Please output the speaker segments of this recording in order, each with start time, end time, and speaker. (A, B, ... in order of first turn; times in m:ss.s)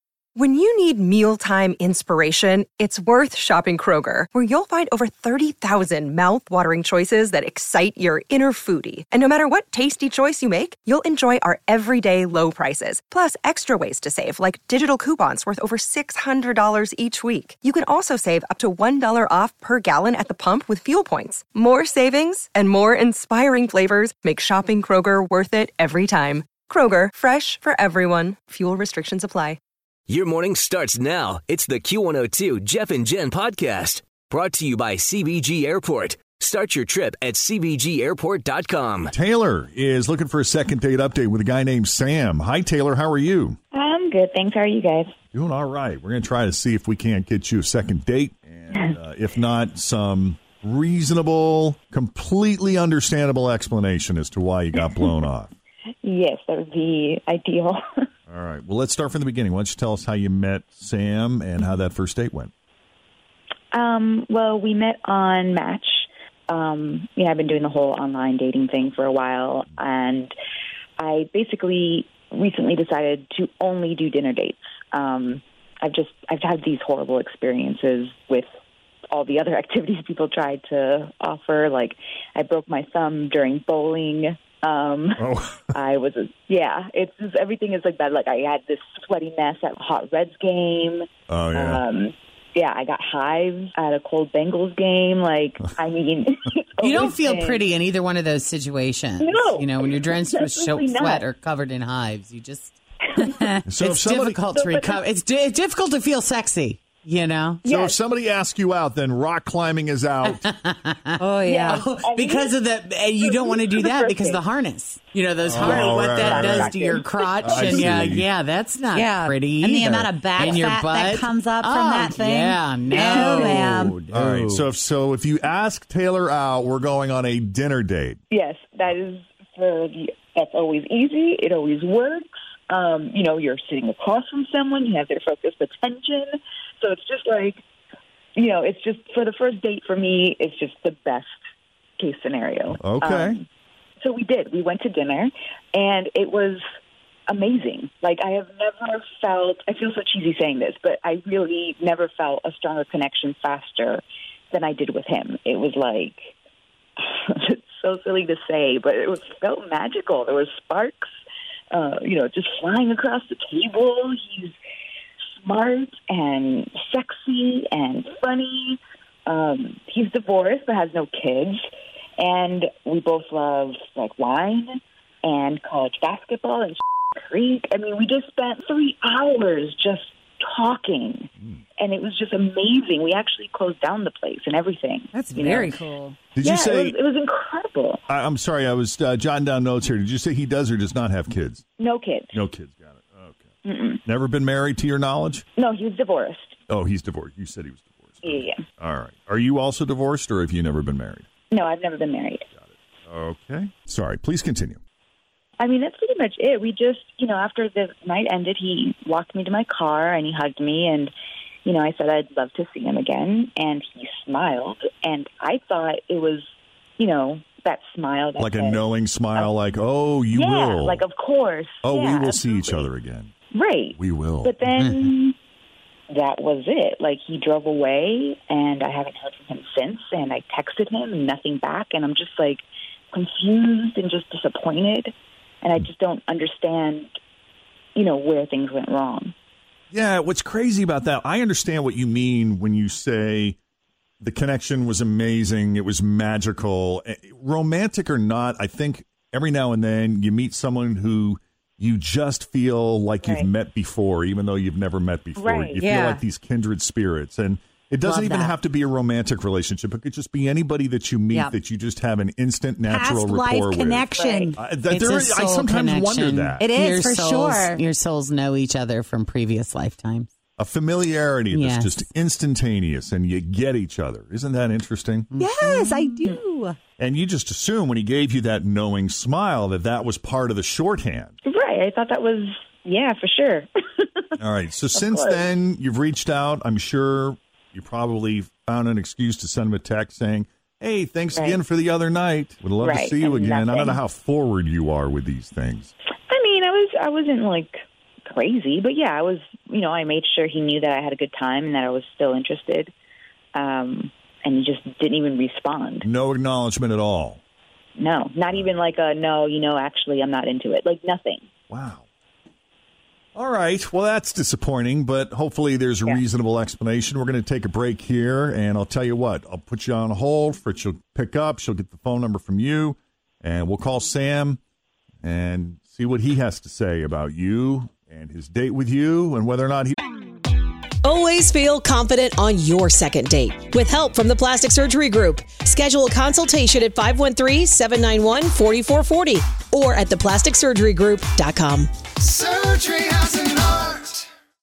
0:00.4-0:29.6 A
0:30.1-0:39.1 B
0:39.1-0:43.6 C
0:43.7-0:45.1 D
0:45.3-0:55.5 C
0:56.0-0:57.8 D
0:58.3-1:02.5 C
1:03.7-1:10.3 D
1:11.0-1:18.4 D
1:19.1-1:37.7 D
1:25.2-1:25.7 C
1:31.3-1:31.8 C
1:36.8-1:47.6 E
1:39.2-1:41.2 D
1:43.7-1:44.4 C
1:44.5-1:45.0 D
1:47.6-1:48.0 D
1:47.6-1:50.4 C
1:50.2-2:04.6 E
1:51.2-1:51.8 F
1:51.4-1:52.5 D
1:53.2-1:54.4 D
1:55.4-1:56.8 C
1:55.6-1:57.8 D
1:57.4-1:58.2 C
1:58.8-2:04.0 F
2:03.0-2:03.7 D
2:04.1-2:08.2 C
2:08.3-2:17.6 D
2:18.4-2:21.3 D
2:22.0-2:23.4 D
2:22.8-2:23.4 C
2:24.0-2:26.6 D
2:27.3-2:36.3 D
2:37.0-2:41.1 D
2:41.7-2:44.6 D
2:45.4-3:05.8 D
3:05.1-3:06.1 F
3:06.4-3:07.0 C
3:06.4-3:08.0 D
3:08.1-3:11.6 C
3:11.8-3:12.3 D
3:12.3-3:13.5 C
3:13.6-3:14.0 D
3:14.0-3:15.4 C
3:15.6-3:16.5 D
3:16.7-3:21.2 C
3:18.2-3:18.6 D
3:21.5-3:22.4 D
3:22.6-3:24.8 C
3:25.6-3:31.1 D
3:31.6-3:36.4 D
3:37.0-3:39.5 D
3:38.4-3:41.0 C
3:40.3-3:42.9 D
3:41.8-3:43.3 C
3:43.5-3:45.4 D
3:43.9-3:44.5 C
3:46.1-3:57.2 D
3:57.9-3:59.3 D
3:59.9-4:03.6 C
4:04.2-4:26.7 C
4:13.2-4:13.5 D
4:15.4-4:15.8 D
4:15.8-4:16.2 F
4:18.0-4:18.5 F
4:22.9-4:24.6 F
4:24.1-4:24.5 D
4:24.9-4:30.3 E
4:26.6-4:27.8 F
4:30.6-4:35.3 C
4:31.5-4:32.0 E
4:35.3-4:36.0 E
4:35.3-4:36.8 F
4:37.0-4:41.3 C
4:41.4-4:44.1 D
4:44.4-4:55.9 C
4:44.9-4:45.4 D
4:51.3-4:51.6 D
4:52.8-4:54.0 D
4:56.3-5:02.9 D
5:03.5-5:06.1 D
5:06.0-5:07.4 C
5:08.0-5:11.4 D
5:11.7-5:12.0 C
5:13.3-5:24.6 C
5:25.2-5:30.0 C
5:31.0-5:42.0 G